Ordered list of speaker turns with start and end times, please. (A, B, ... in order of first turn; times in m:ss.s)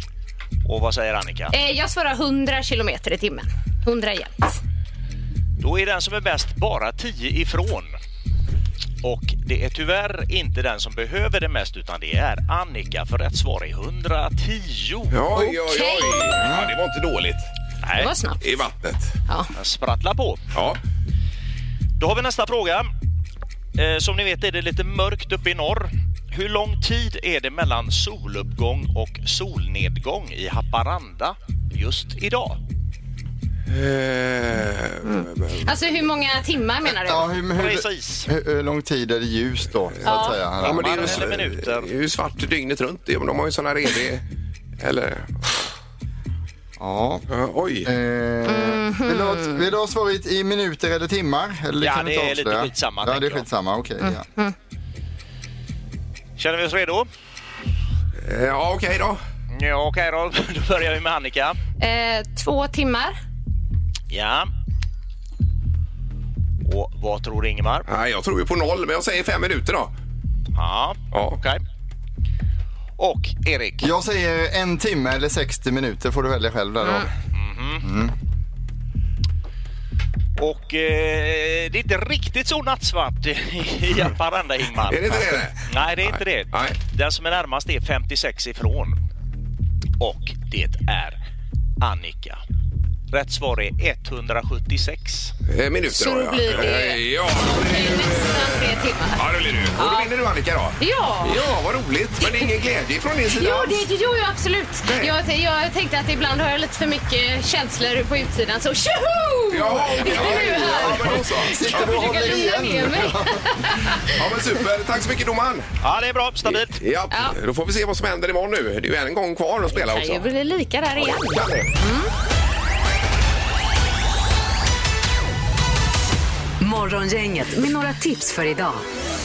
0:00.6-0:01.5 A
0:01.5-0:04.6 B
0:05.6-0:08.0 A
0:09.0-0:15.2 A
0:15.1-0:17.5 C
0:15.4-0:16.4 B
0:16.3-0:16.7 D
0:17.8-0:18.1 A
0:18.0-0:18.4 B
0:18.4-0:19.2 C
0:19.6-0:20.4 A
0:20.5-0:20.8 C
0:22.0-0:22.9 A
0:23.8-0:32.6 A
0:33.7-0:35.6 C
0:35.0-0:37.3 B
0:37.0-0:41.1 D
0:37.5-0:38.3 A
0:40.0-0:44.2 C
0:40.0-0:40.4 B
0:40.7-0:41.9 A
0:44.8-0:45.7 C
0:46.8-0:47.2 D
0:47.3-0:47.9 C
0:47.8-0:54.2 D
0:48.5-0:49.6 B
0:51.8-0:53.5 A
0:54.0-0:54.5 B
0:56.4-0:57.1 A
0:58.2-0:59.2 C
0:59.5-1:01.6 A
1:01.8-1:03.2 B
1:04.1-1:04.5 A
1:06.6-1:07.9 A
1:07.9-1:09.9 C
1:10.5-1:11.6 A
1:11.1-1:11.4 C
1:13.0-1:13.9 A
1:13.8-1:17.1 D
1:17.4-1:17.9 A
1:17.8-1:18.1 D
1:20.4-1:29.0 A
1:24.9-1:26.8 C
1:30.0-1:31.2 A
1:31.8-1:32.4 A
1:33.1-1:35.3 A
1:35.5-1:43.8 C
1:35.9-1:39.2 B
1:39.8-1:40.1 B
1:40.8-1:41.4 B
1:42.2-1:42.5 B
1:43.3-1:54.1 B
1:44.9-1:45.1 C
1:49.5-1:52.5 C
1:50.0-1:53.4 D
1:54.1-1:55.7 C
1:55.8-1:56.8 A
1:56.5-2:00.3 C
1:59.7-2:02.1 B
2:01.0-2:01.7 C
2:06.6-2:08.8 E